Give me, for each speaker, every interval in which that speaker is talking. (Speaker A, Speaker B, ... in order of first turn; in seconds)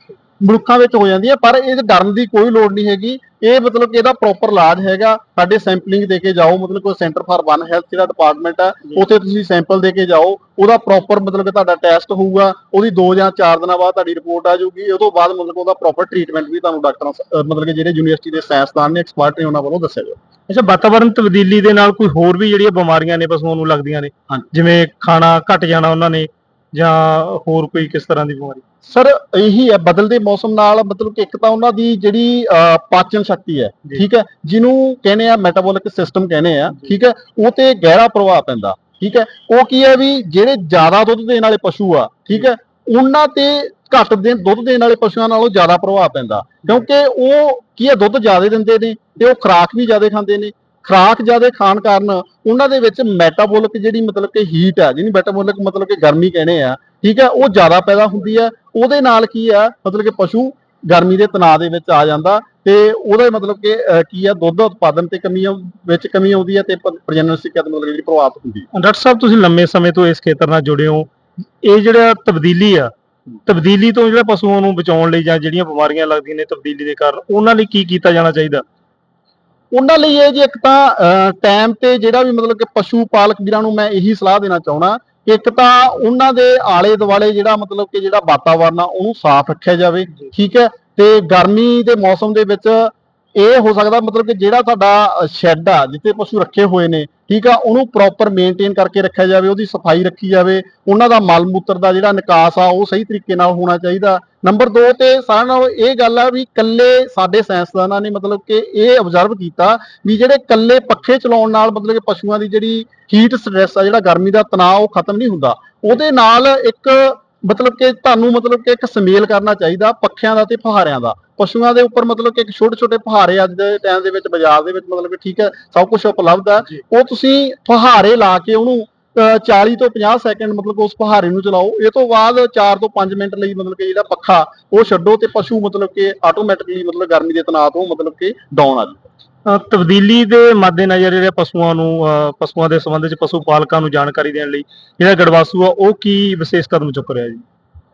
Speaker A: 0.4-20.2, 28.8-68.7, 79.7-139.1
Speaker B: 20.5-28.6, 68.7-71.1, 71.6-72.9, 73.5-78.6, 139.5-147.4